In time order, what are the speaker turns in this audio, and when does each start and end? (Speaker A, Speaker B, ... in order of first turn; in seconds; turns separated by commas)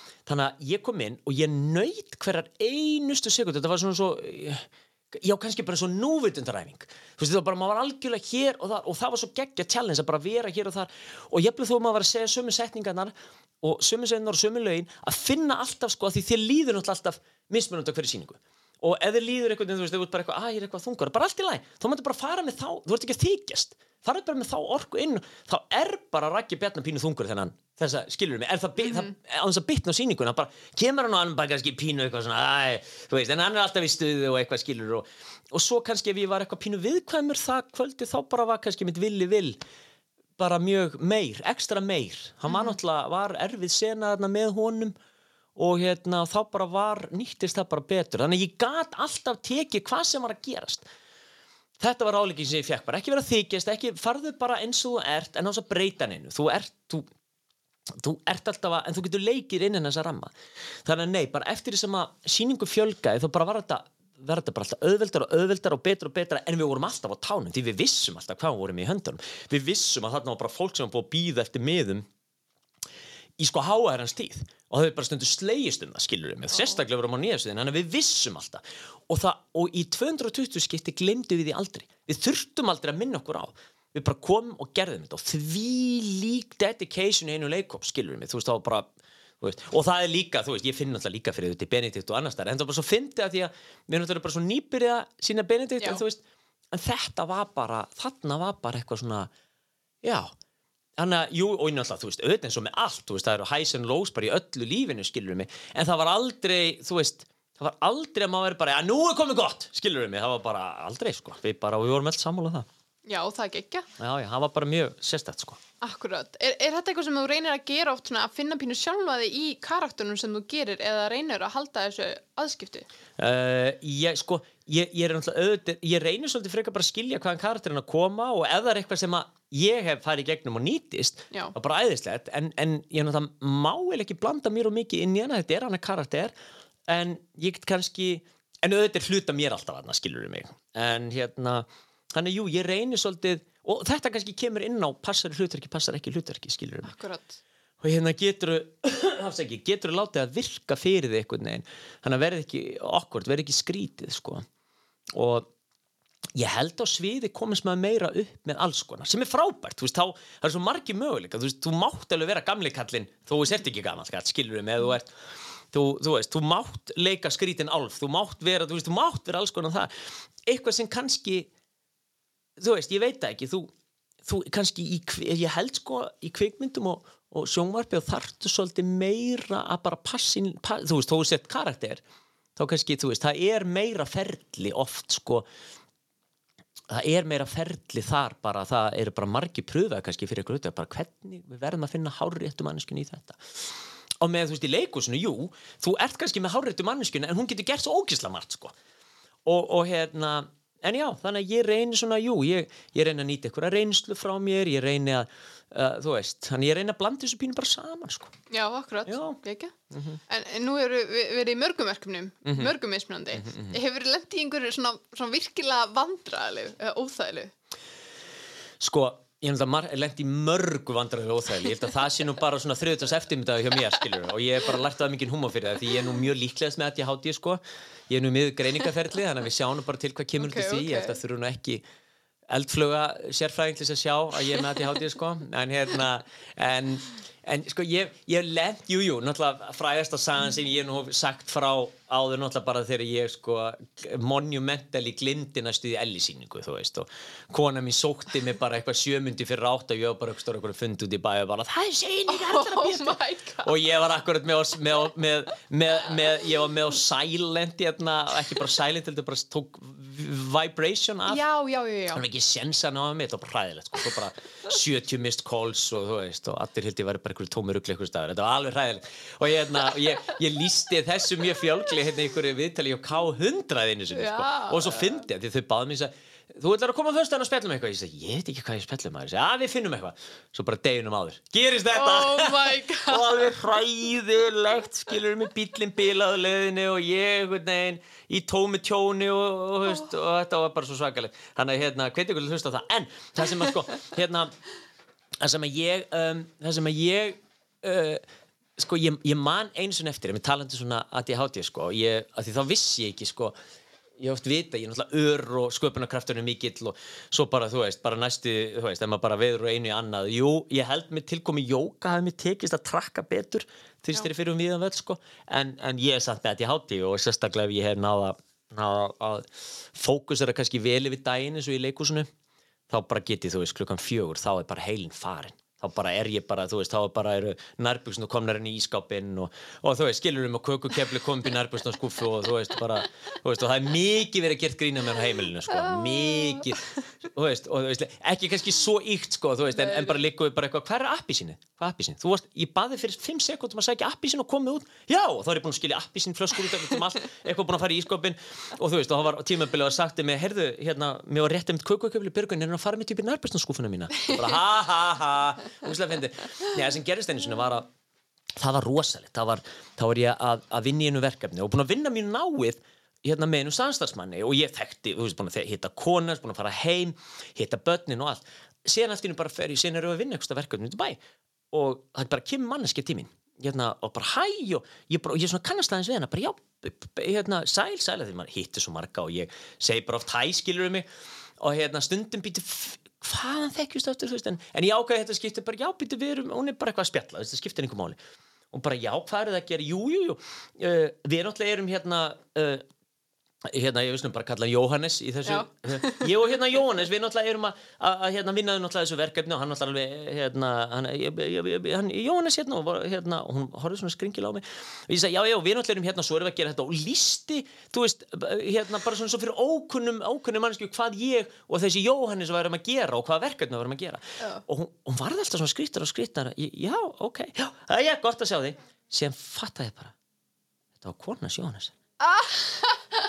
Speaker A: 0.3-39.6, Speaker A: 40.4-44.9, Speaker B: 42.5-42.8, Speaker A: 45.5-50.9, Speaker A: 51.8-57.1, Speaker A: 57.9-60.3, Speaker A: 60.8-72.0, Speaker A: 73.4-99.3, Speaker A: 100.0-100.3, Speaker A: 101.0-112.7, Speaker B: 113.0-113.9, Speaker A: 114.0-115.6, Speaker B: 115.8-122.9, Speaker A: 123.2-136.3, Speaker A: 136.9-146.9, Speaker B: 146.8-147.4, Speaker A: 147.8-154.4, Speaker A: 155.1-155.5, Speaker A: 156.3-165.1, Speaker A: 165.7-169.9, Speaker A: 170.4-171.5, Speaker A: 172.6-173.7, Speaker A: 174.2-182.0, Speaker A: 182.6-185.5, Speaker A: 186.9-193.6, Speaker A: 194.2-198.7, Speaker A: 199.4-208.3, Speaker B: 208.5-209.7, Speaker A: 209.1-209.4, Speaker A: 209.9-210.2, Speaker B: 210.3-217.5, Speaker A: 212.4-212.7, Speaker A: 213.3-213.8, Speaker A: 218.8-231.8, Speaker B: 230.4-231.2, Speaker A: 232.5-261.4, Speaker B: 252.3-253.7, Speaker B: 261.3-262.2, Speaker A: 262.1-294.5, Speaker B: 274.1-275.1, Speaker B: 281.9-283.3, Speaker A: 295.4-298.2, Speaker A: 298.8-303.6, Speaker A: 304.2-322.3, Speaker A: 322.9-357.9, Speaker B: 339.7-340.2, Speaker A: 358.6-371.2, Speaker A: 371.7-381.1, Speaker A: 381.6-388.2, Speaker A: 388.7-392.8, Speaker A: 393.6-420.1, Speaker B: 395.4-396.3, Speaker A: 421.0-421.9, Speaker B: 422.2-423.1